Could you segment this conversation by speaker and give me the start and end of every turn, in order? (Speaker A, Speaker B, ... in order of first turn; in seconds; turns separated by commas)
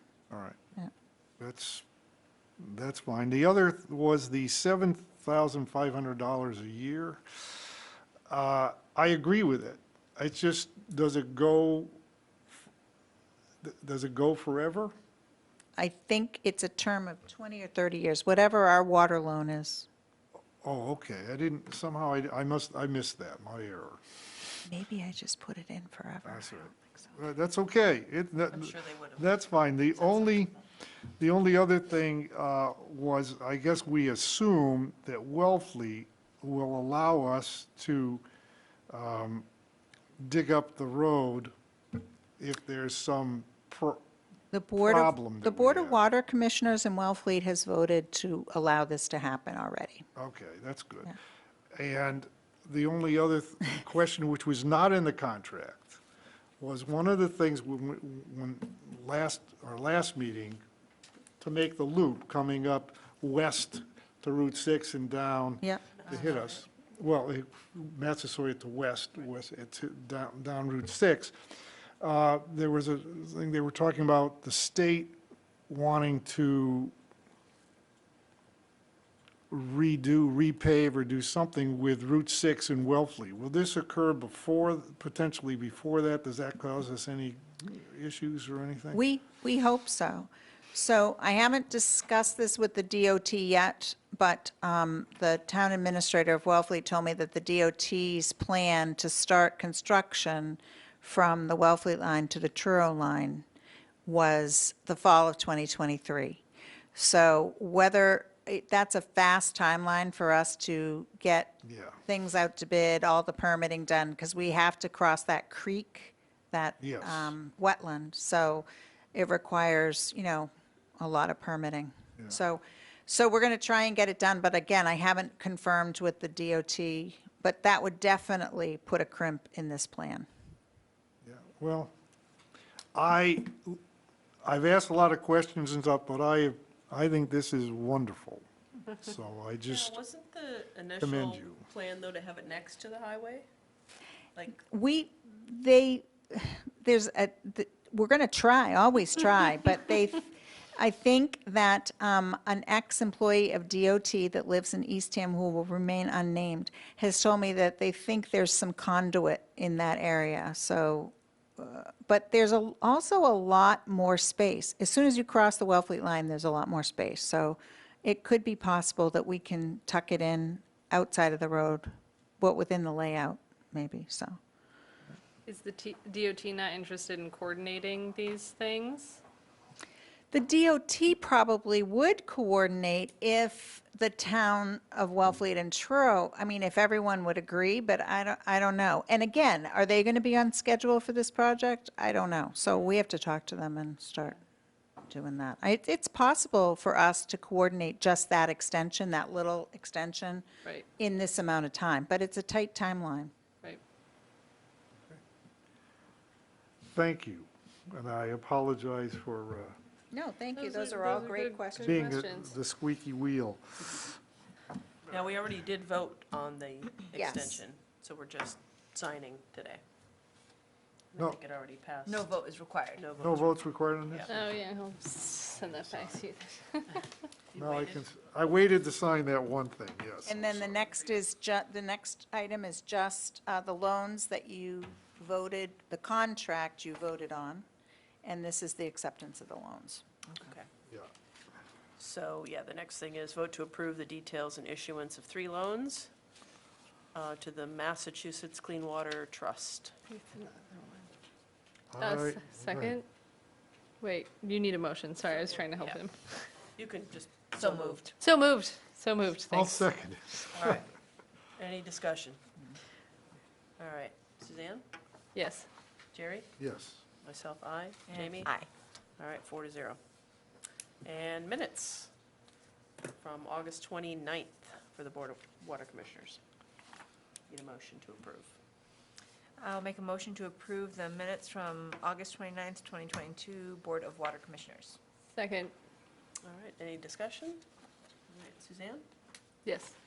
Speaker A: 0.3-0.6, Speaker A: 1.4-1.8, Speaker A: 2.6-7.7, Speaker A: 8.3-12.0, Speaker A: 13.6-14.9, Speaker B: 15.8-19.9, Speaker A: 20.6-24.0, Speaker B: 24.6-26.9, Speaker A: 26.2-30.5, Speaker C: 28.5-29.3, Speaker A: 31.2-38.2, Speaker A: 38.9-39.5, Speaker A: 40.2-41.5, Speaker A: 42.4-44.0, Speaker B: 44.5-50.0, Speaker A: 44.8-46.0, Speaker A: 50.1-51.2, Speaker A: 51.7-56.0, Speaker A: 56.6-60.6, Speaker A: 61.4-71.3, Speaker A: 72.0-75.2, Speaker A: 75.7-76.9, Speaker A: 79.5-89.0, Speaker B: 88.9-103.4, Speaker B: 104.0-106.4, Speaker B: 106.9-130.2, Speaker A: 111.6-112.0, Speaker A: 116.8-117.3, Speaker A: 131.2-131.9, Speaker A: 132.9-133.8, Speaker A: 134.4-140.0, Speaker C: 139.7-143.5, Speaker A: 141.0-141.6, Speaker B: 144.5-171.9, Speaker B: 172.4-174.4, Speaker D: 175.4-179.2, Speaker B: 180.3-194.4, Speaker B: 195.1-200.4, Speaker B: 201.0-203.3, Speaker A: 206.9-209.8, Speaker B: 210.1-212.1, Speaker D: 210.5-212.5, Speaker A: 211.8-214.2, Speaker C: 215.1-219.8, Speaker B: 217.1-217.6, Speaker C: 221.1-222.4, Speaker E: 222.0-223.0, Speaker C: 222.9-223.5, Speaker A: 223.2-224.4, Speaker D: 224.3-227.1, Speaker A: 225.7-226.1, Speaker A: 227.5-230.8, Speaker B: 230.2-237.7, Speaker C: 230.6-230.9, Speaker B: 238.2-240.0, Speaker C: 242.0-246.1, Speaker C: 247.1-249.9, Speaker D: 250.1-251.1, Speaker A: 251.9-252.9, Speaker D: 252.0-253.1, Speaker D: 254.0-256.5, Speaker C: 255.2-256.0, Speaker C: 256.7-258.1, Speaker E: 257.6-258.1, Speaker D: 258.2-259.9, Speaker A: 259.5-260.8, Speaker C: 260.6-260.9, Speaker C: 261.6-262.4, Speaker C: 263.8-264.8, Speaker D: 265.3-265.7, Speaker C: 266.1-266.5, Speaker A: 266.6-267.0, Speaker C: 267.2-268.5, Speaker E: 268.1-268.7, Speaker C: 269.2-270.0, Speaker C: 271.0-272.1, Speaker C: 273.2-276.4, Speaker C: 277.5-278.6, Speaker E: 279.6-285.0, Speaker D: 285.3-285.7, Speaker C: 286.4-287.6, Speaker C: 288.3-289.0, Speaker D: 289.6-289.9